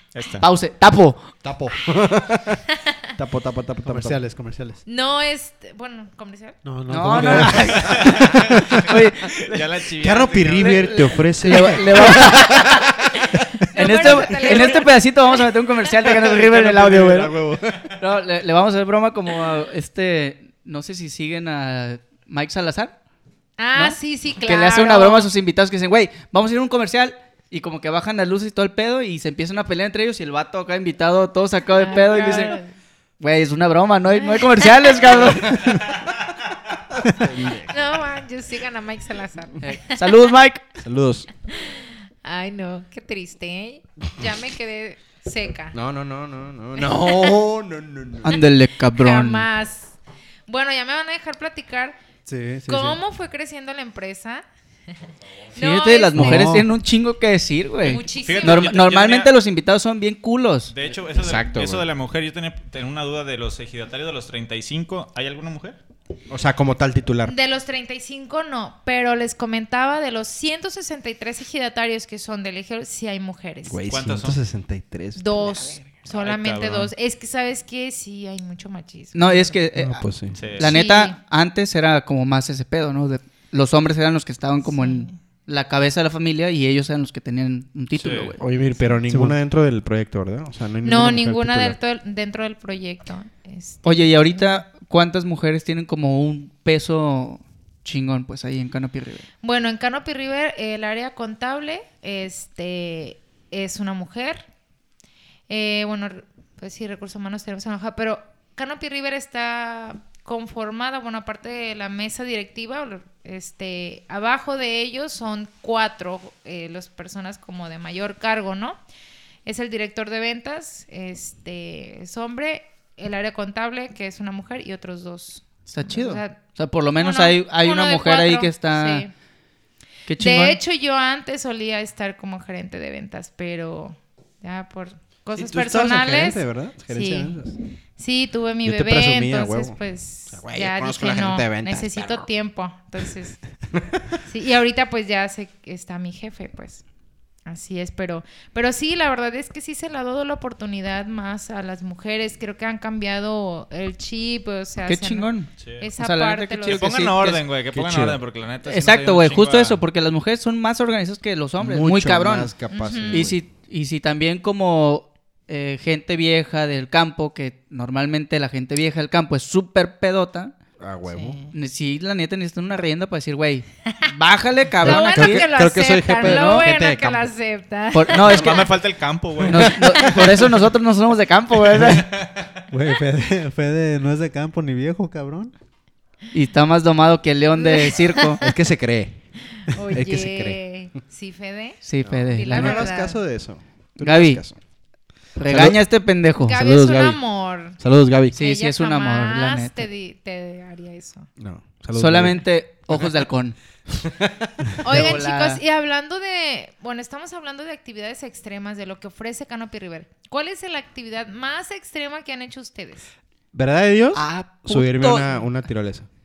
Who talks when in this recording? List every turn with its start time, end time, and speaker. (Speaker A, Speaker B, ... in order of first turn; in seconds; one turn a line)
Speaker A: 0.1-0.5
Speaker B: 0.4-1.2
Speaker C: 1.4-2.6
Speaker D: 2.7-3.1
Speaker C: 3.2-4.2
Speaker E: 3.9-4.8
Speaker D: 4.8-6.6
Speaker E: 6.6-7.9
Speaker B: 6.9-9.6
Speaker A: 7.7-10.9
Speaker C: 10.0-12.9
Speaker B: 10.6-12.9
Speaker D: 13.7-15.4
Speaker B: 13.7-17.3
Speaker C: 16.0-17.9
Speaker B: 18.0-22.9
Speaker D: 23.6-25.3
Speaker B: 23.7-32.6
Speaker D: 31.7-32.7
Speaker B: 33.2-35.6
Speaker D: 34.2-35.3
Speaker C: 35.4-35.9
Speaker C: 37.0-37.9
Speaker D: 37.7-40.1
Speaker B: 39.6-40.7
Speaker C: 40.8-41.3
Speaker D: 41.5-45.7
Speaker C: 45.7-48.3
Speaker D: 46.8-47.4
Speaker B: 48.2-49.5
Speaker D: 48.3-49.9
Speaker D: 50.5-52.0
Speaker E: 52.3-53.0
Speaker D: 52.7-54.4
Speaker D: 55.5-56.5
Speaker B: 55.5-60.7
Speaker E: 56.1-56.7
Speaker D: 57.8-58.7
Speaker A: 58.2-59.3
Speaker A: 60.7-65.8
Speaker C: 61.1-61.8
Speaker C: 66.3-67.3
Speaker D: 67.3-73.8
Speaker C: 73.7-75.8
Speaker A: 73.9-74.4
Speaker D: 75.2-79.6
Speaker A: 76.1-76.9
Speaker B: 79.1-88.4
Speaker C: 79.8-80.6
Speaker A: 80.3-80.7
Speaker D: 80.6-81.2
Speaker D: 84.6-85.2
Speaker A: 88.0-88.3
Speaker C: 88.4-91.8
Speaker E: 89.1-89.3
Speaker D: 90.8-94.5
Speaker B: 93.8-99.2
Speaker D: 99.4-104.4
Speaker D: 105.5-118.8
Speaker D: 119.5-126.4
Speaker B: 125.7-129.1
Speaker D: 127.0-129.1
Speaker B: 130.1-130.6
Speaker D: 130.2-137.4
Speaker C: 135.3-137.5
Speaker D: 137.9-143.4
Speaker C: 138.6-139.8
Speaker C: 140.3-142.3
Speaker D: 144.3-146.8
Speaker D: 147.4-157.1
Speaker B: 154.8-157.4
Speaker A: 155.6-155.9
Speaker A: 156.7-159.8
Speaker C: 157.7-158.2
Speaker B: 158.6-162.5
Speaker C: 161.6-163.3
Speaker D: 162.7-163.3
Speaker B: 163.1-170.5
Speaker C: 170.8-171.4
Speaker D: 171.1-171.5
Speaker B: 171.5-175.5
Speaker D: 174.8-178.7
Speaker C: 174.8-177.3
Speaker B: 176.2-176.7
Speaker B: 177.9-178.7
Speaker A: 178.1-180.2
Speaker B: 179.5-182.1
Speaker A: 181.8-182.5
Speaker E: 182.7-185.5
Speaker B: 186.3-188.4
Speaker D: 187.6-188.4
Speaker C: 188.4-189.2
Speaker D: 189.5-193.2
Speaker C: 189.9-190.6
Speaker B: 191.8-192.8
Speaker C: 192.0-194.6
Speaker B: 194.0-194.4
Speaker B: 195.3-196.6
Speaker C: 195.5-195.8
Speaker D: 196.4-197.8
Speaker C: 196.5-197.2
Speaker C: 197.8-198.3
Speaker B: 198.3-199.9
Speaker D: 198.3-201.3
Speaker C: 201.4-203.1
Speaker B: 201.9-203.6
Speaker C: 203.9-204.7
Speaker D: 204.8-213.1
Speaker B: 204.9-205.6
Speaker C: 213.5-216.1
Speaker B: 214.1-215.3